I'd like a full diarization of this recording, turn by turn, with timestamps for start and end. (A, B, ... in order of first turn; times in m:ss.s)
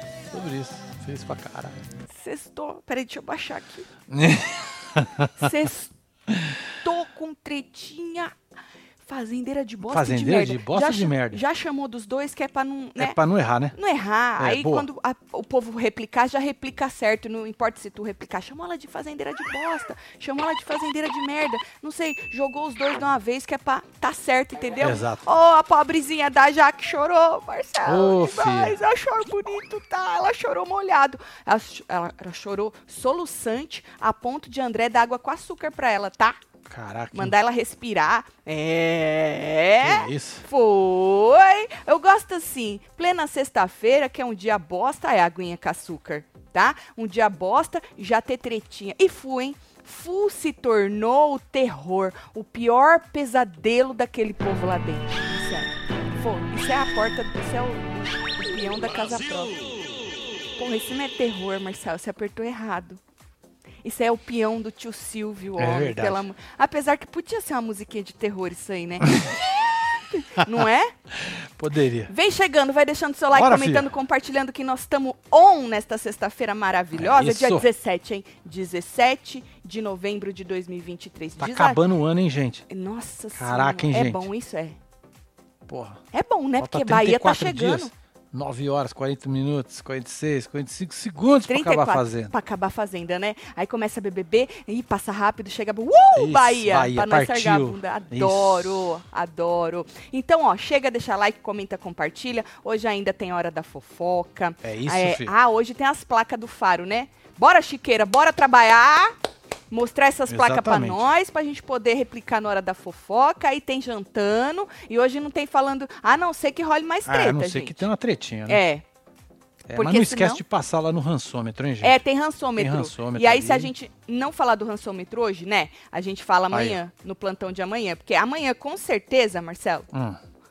0:00.3-0:01.9 A
0:02.1-0:03.9 B
0:04.1-0:05.5 A
0:05.4-0:05.9 B
0:06.3-0:06.6 A
0:06.8-0:08.3 B
0:09.0-0:13.2 B
0:09.8-0:11.4 A
0:13.0-0:13.8 A
0:13.7-0:36.4 B
0:14.4-0:14.9 A
0:24.8-0:25.2 A
0:27.8-0:28.8 A
0:36.7-0:37.3 A
0:37.1-0:59.5 B
0:39.8-0:40.4 A
1:00.6-1:03.0 B
1:03.8-1:10.9 B
1:05.6-1:06.3 A
1:11.2-1:12.1 A
1:12.1-1:21.8 B
1:13.3-1:13.9 A
1:16.9-1:17.7 A
1:21.4-1:22.6 A
1:22.7-1:24.8 B
1:23.4-1:24.3 A
1:25.7-1:26.0 A
1:26.1-1:27.9 B
1:26.6-1:32.3 A
1:31.5-1:49.1 B
1:36.2-1:38.9 A
1:44.6-1:45.3 A
1:49.7-1:57.9 B
1:50.3-1:51.0 A
1:57.0-1:58.6 A
1:58.5-1:58.8 B
1:59.7-2:02.0 A
1:59.7-2:00.4 B
2:01.8-2:09.9 B
2:02.6-2:03.7 A
2:06.5-2:06.8 A
2:09.9-2:10.2 A